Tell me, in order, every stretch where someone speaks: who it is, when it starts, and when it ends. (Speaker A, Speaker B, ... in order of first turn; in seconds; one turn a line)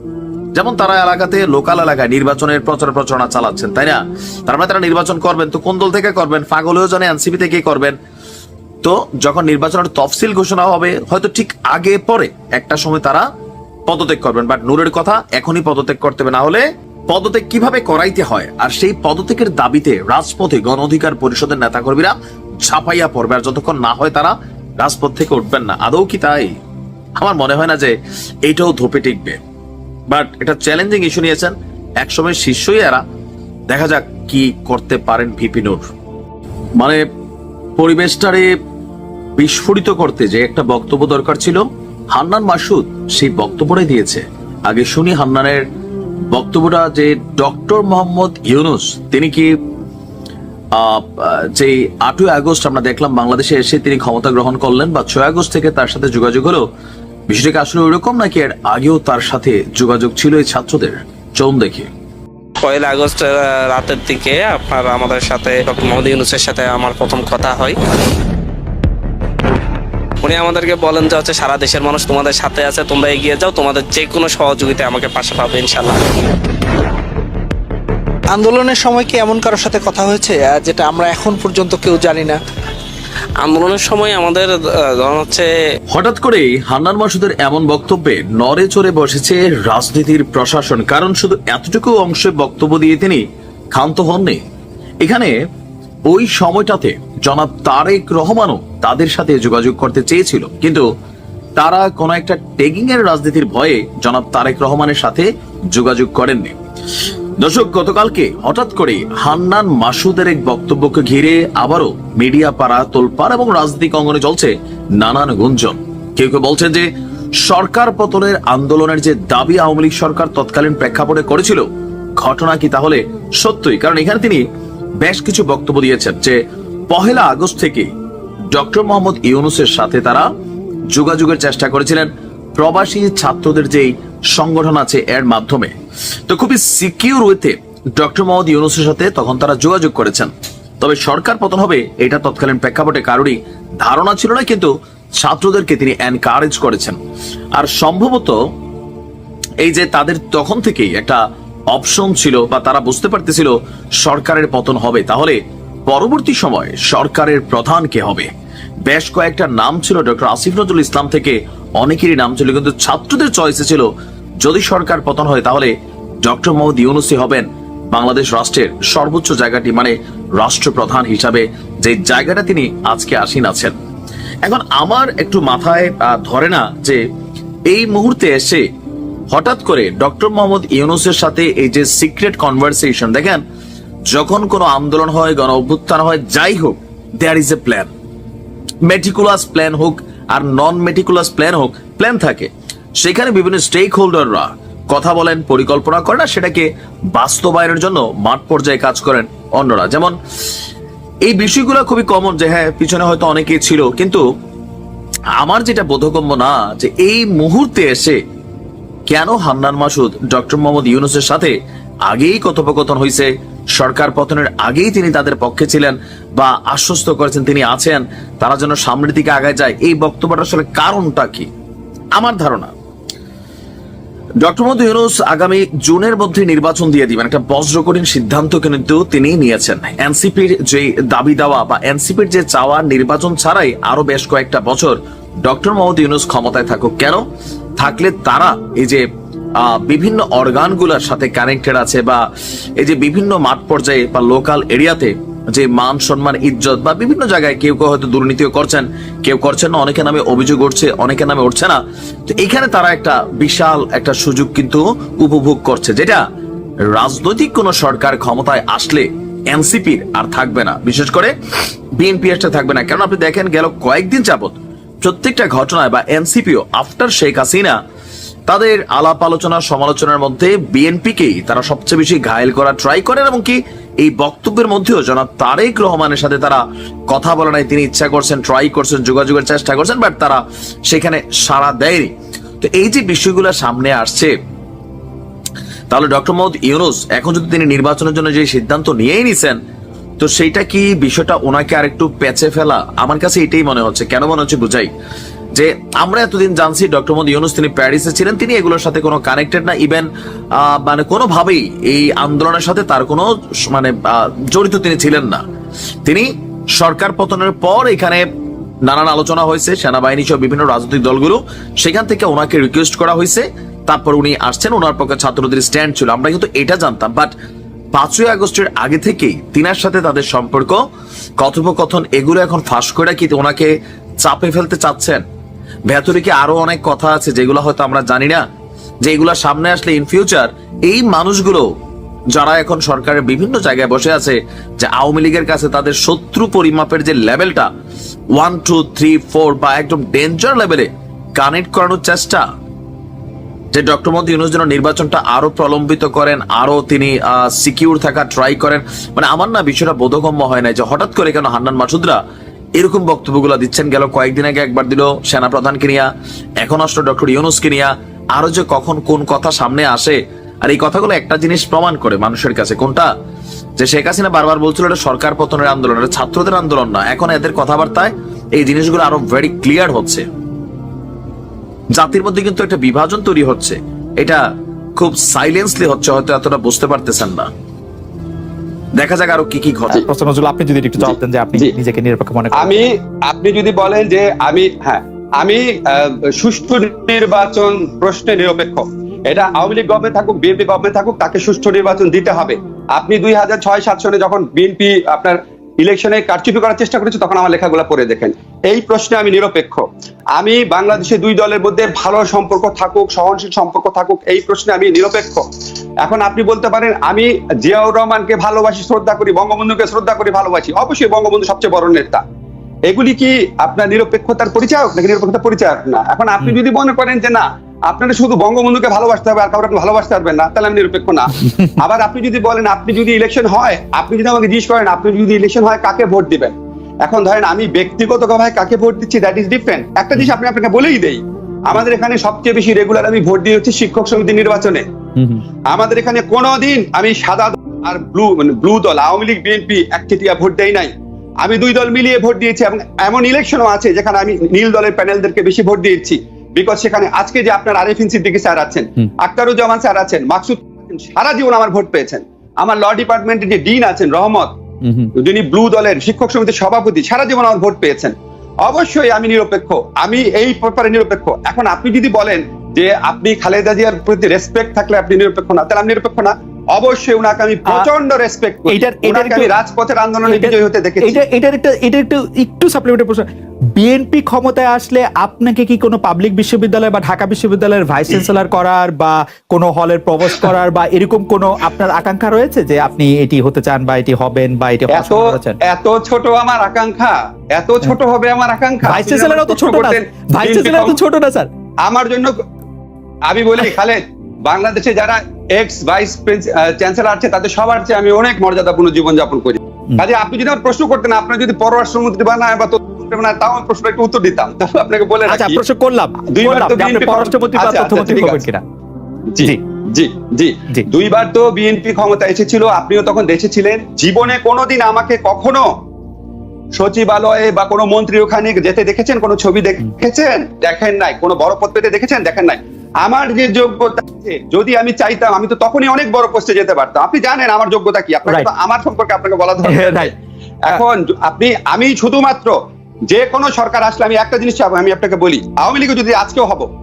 Speaker A: 0.5-8.0
Speaker A: 8.8-13.2
Speaker A: 13.9-26.5
Speaker A: 27.2-29.4
Speaker A: 30.1-33.0
Speaker A: 33.7-35.9
Speaker A: 36.8-37.0
Speaker A: 37.8-38.5
Speaker A: 39.4-41.6
Speaker A: 42.1-45.6
Speaker A: 46.3-49.5
Speaker A: 50.7-56.6
Speaker A: 57.3-61.9
Speaker B: 62.6-67.8
Speaker B: 70.2-76.0
Speaker C: 78.3-82.4
Speaker B: 83.4-85.5
Speaker A: 85.9-94.4
Speaker A: 95.0-95.3
Speaker A: 96.1-100.8
Speaker A: 101.6-106.5
Speaker A: 107.4-116.9
Speaker A: 117.4-124.5
Speaker A: 125.0-126.4
Speaker A: 126.9-127.9
Speaker A: 128.5-130.3
Speaker A: 130.9-135.7
Speaker A: 136.3-147.0
Speaker A: 147.5-148.4
Speaker A: 149.6-158.3
Speaker A: 158.8-163.9
Speaker A: 164.4-165.7
Speaker A: 166.2-173.8
Speaker A: 174.4-177.0
Speaker A: 177.7-178.6
Speaker A: 179.3-183.4
Speaker A: 184.1-187.9
Speaker A: 188.8-200.2
Speaker A: 201.2-204.2
Speaker A: 205.4-208.2
Speaker A: 209.1-211.5
Speaker A: 212.1-221.5
Speaker A: 222.1-222.7
Speaker A: 224.4-237.2
Speaker A: 237.8-239.0
Speaker A: 239.6-242.2
Speaker A: 242.8-256.2
Speaker A: 256.9-261.3
Speaker A: 262.0-267.8
Speaker A: 268.5-284.3
Speaker A: 285.9-289.6
Speaker A: 290.2-294.9
Speaker A: 295.5-305.4
Speaker A: 306.0-308.2
Speaker A: 308.8-317.3
Speaker A: 317.9-320.8
Speaker A: 321.4-325.2
Speaker A: 325.9-328.4
Speaker A: 329.0-331.6
Speaker A: 332.3-337.7
Speaker A: 338.3-342.4
Speaker A: 343.7-352.2
Speaker A: 352.8-356.1
Speaker A: 356.6-363.1
Speaker A: 363.8-370.2
Speaker A: 371.9-374.4
Speaker A: 375.0-377.5
Speaker A: 378.9-380.0
Speaker D: 380.1-382.9
Speaker E: 381.0-381.7
Speaker E: 382.6-405.4
Speaker E: 406.0-412.2
Speaker E: 412.9-434.8
Speaker D: 435.2-435.4
Speaker E: 435.7-440.9
Speaker E: 441.4-454.6
Speaker D: 454.8-455.1
Speaker E: 455.2-471.2
Speaker D: 468.7-469.5
Speaker D: 470.3-473.2
Speaker D: 473.8-485.6
Speaker E: 484.9-491.0
Speaker D: 488.8-491.5
Speaker E: 491.8-492.4
Speaker E: 493.2-505.6
Speaker D: 505.3-508.6
Speaker E: 506.3-508.4
Speaker E: 509.3-515.7
Speaker E: 516.8-530.1
Speaker D: 529.6-530.1
Speaker E: 530.6-532.5
Speaker E: 533.1-536.7